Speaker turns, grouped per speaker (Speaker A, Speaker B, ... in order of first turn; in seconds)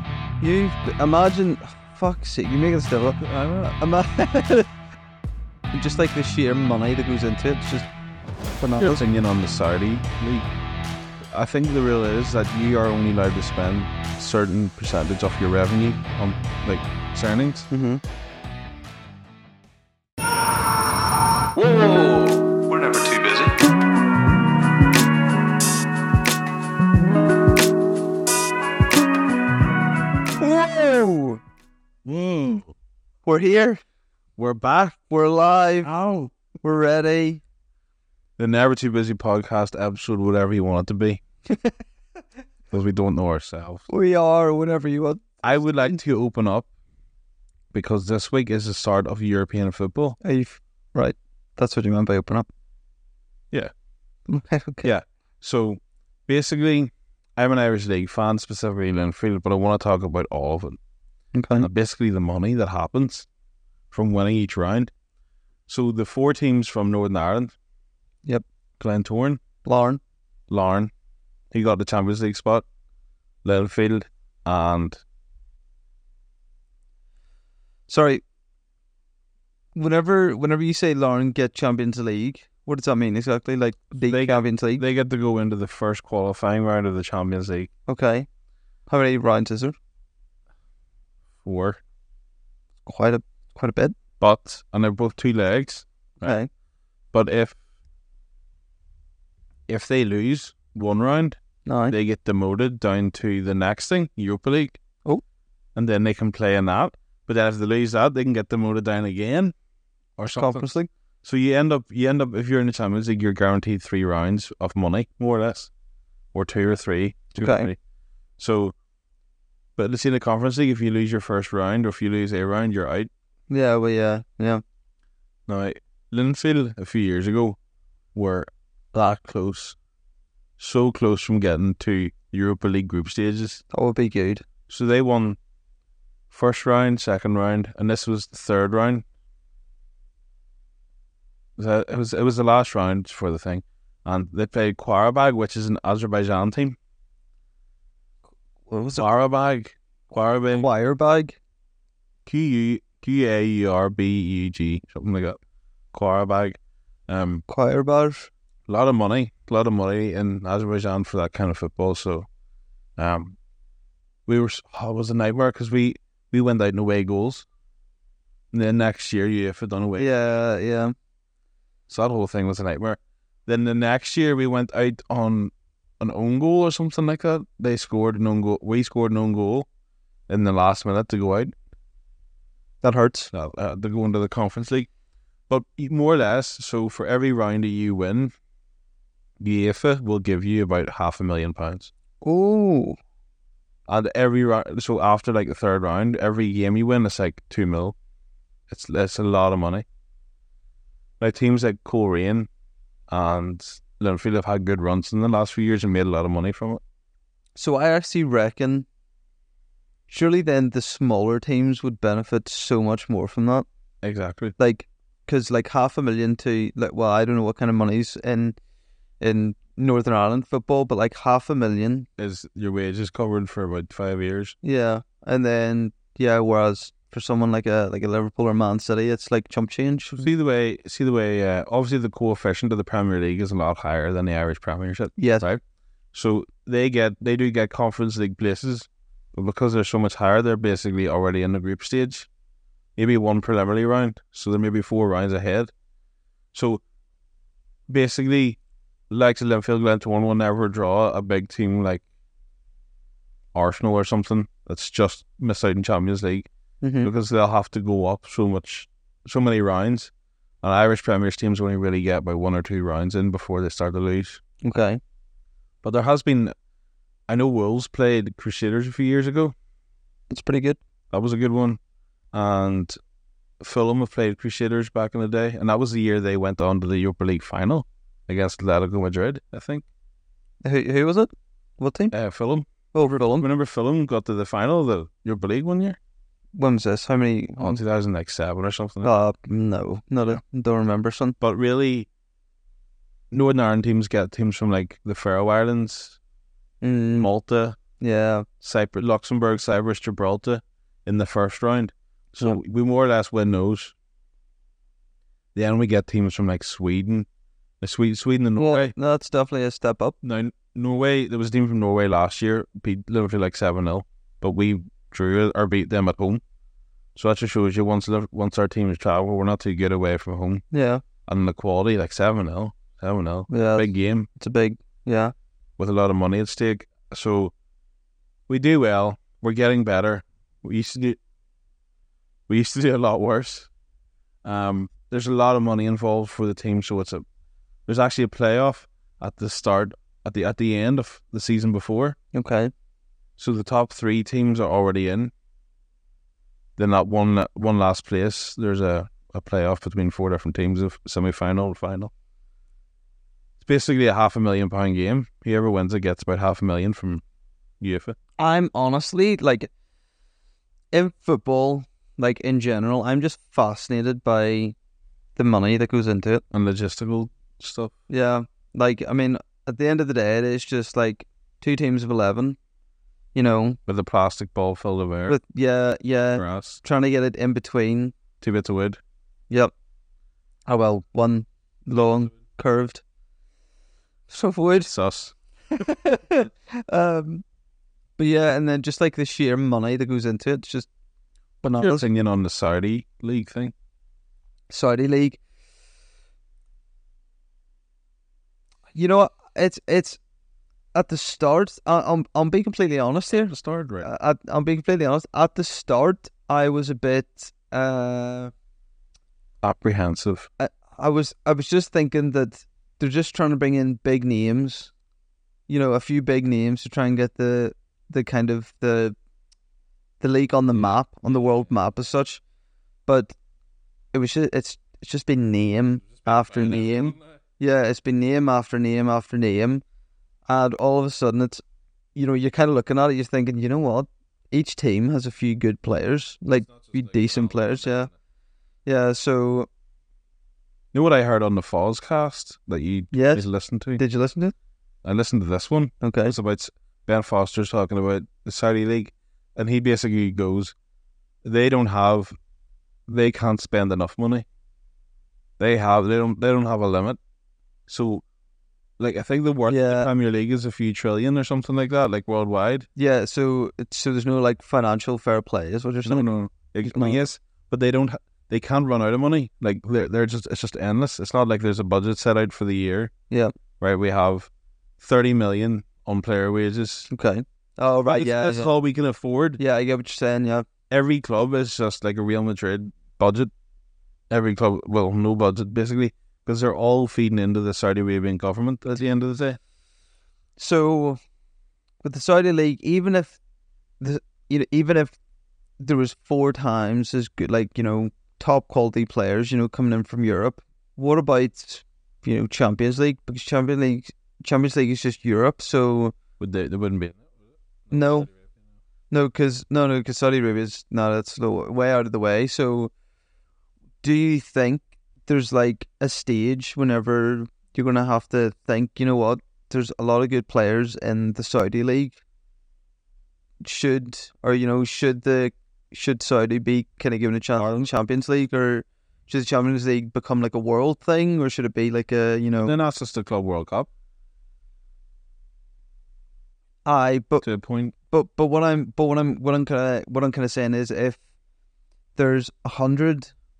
Speaker A: 0.4-4.7, 5.7-7.9, 8.6-9.0, 17.7-18.0, 21.6-23.5, 30.4-31.4, 33.2-33.8, 35.1-35.9, 36.6-37.4, 43.9-45.4, 50.2-52.5, 54.3-54.9, 61.3-61.7, 69.6-70.0, 77.9-78.2, 79.7-84.8, 87.9-88.3, 88.9-89.8, 92.8-93.9, 96.2-96.5, 101.7-102.0, 110.2-110.9, 117.3-117.7, 123.5-124.6, 133.7-134.4, 148.7-149.1, 150.5-151.4, 157.5-158.3, 170.0-170.9, 182.8-183.3, 192.2-193.0, 207.6-208.8, 210.1-213.7, 214.6-218.6, 219.2-222.1, 224.6-230.3, 235.2-235.4, 256.8-257.1, 264.6-265.0, 270.3-270.8, 280.6-282.1, 282.9-283.4, 286.6-287.8, 289.0-291.4, 296.8-297.3, 298.0-298.4, 308.6-310.2, 320.7-321.0, 323.5-325.3, 342.3-342.7, 358.4-359.7, 360.9-364.7, 365.4-366.4, 368.1-372.6, 373.3-373.8, 375.3-378.1, 380.7-383.0, 384.3-384.9, 385.7-387.4, 388.2-390.9, 391.6-392.1, 394.7-395.4, 398.9-400.2, 400.9-408.5, 410.6-414.9, 415.7-419.1, 420.2-422.4, 423.1-423.3, 424.1-429.8, 430.5-431.6, 432.1-438.1, 438.9-439.7, 443.1-444.5, 446.0-446.3, 459.7-460.1, 462.9-466.2, 466.8-467.2, 477.1-478.7, 479.6-480.7, 490.6-491.2, 492.0-493.4, 494.0-495.1, 495.8-506.1, 507.9-508.3, 509.1-512.9, 514.0-522.2, 523.6-532.7, 536.8-537.4, 538.1-541.2, 542.1-543.3
Speaker B: 3.2-3.7, 8.8-10.5, 11.3-17.7, 32.0-32.7, 34.4-35.0, 35.8-36.3, 38.4-41.2, 42.7-43.9, 45.4-46.7, 47.7-50.2, 54.8-60.8, 61.6-63.3, 63.9-64.9, 65.7-67.5, 68.8-69.4, 70.5-70.9, 71.5-72.6, 73.4-75.0, 84.0-87.7, 91.4-91.8, 94.2-96.3, 97.1-97.6, 99.7-101.4, 101.9-104.8, 105.7-109.5, 110.2-110.7, 111.2-115.7, 116.3-117.8, 118.4-118.7, 119.8-123.1, 125.5-127.6, 128.1-129.8, 130.6-133.6, 134.7-135.4, 136.3-139.0, 141.6-146.8, 149.0-150.7, 152.2-155.4, 155.9-157.4, 158.7-162.3, 163.0-163.3, 164.3-167.4, 168.5-170.1, 171.9-179.7, 180.3-181.5, 183.3-184.9, 185.5-188.3, 189.4-191.9, 193.9-197.9, 198.7-199.8, 201.2-202.5, 203.1-206.8, 214.0-214.5, 222.2-224.6, 230.1-235.6, 236.1-242.3, 243.0-245.7, 246.5-246.8, 247.9-248.6, 249.1-252.0, 253.5-256.5, 257.0-260.1, 260.6-264.4, 265.8-266.5, 267.3-269.5, 271.1-271.8, 272.3-273.0, 273.6-279.8, 282.1-282.7, 283.4-286.0, 287.6-289.1, 291.4-292.1, 293.3-296.2, 297.2-297.8, 298.6-303.9, 305.5-307.3, 307.8-308.9, 310.2-316.4, 317.1-320.6, 321.3-324.3, 325.8-327.5, 328.5-331.2, 332.5-333.7, 334.4-337.2, 337.9-342.2, 343.4-345.3, 346.8-352.1, 353.6-357.2, 357.8-358.1, 366.5-367.9, 373.9-375.4, 376.4-376.8, 378.4-379.0, 384.9-385.3, 391.7-393.7, 403.3-404.1, 409.6-410.5, 426.2-427.2, 436.8-438.0, 440.9-444.0, 445.0-450.7, 451.4-452.3, 453.1-454.4, 455.6-457.2, 457.9-458.2, 459.0-462.9, 466.0-473.1, 473.8-477.1, 478.1-479.6, 480.9-483.5, 484.3-489.6, 506.4-507.2, 532.6-533.9, 537.4-537.9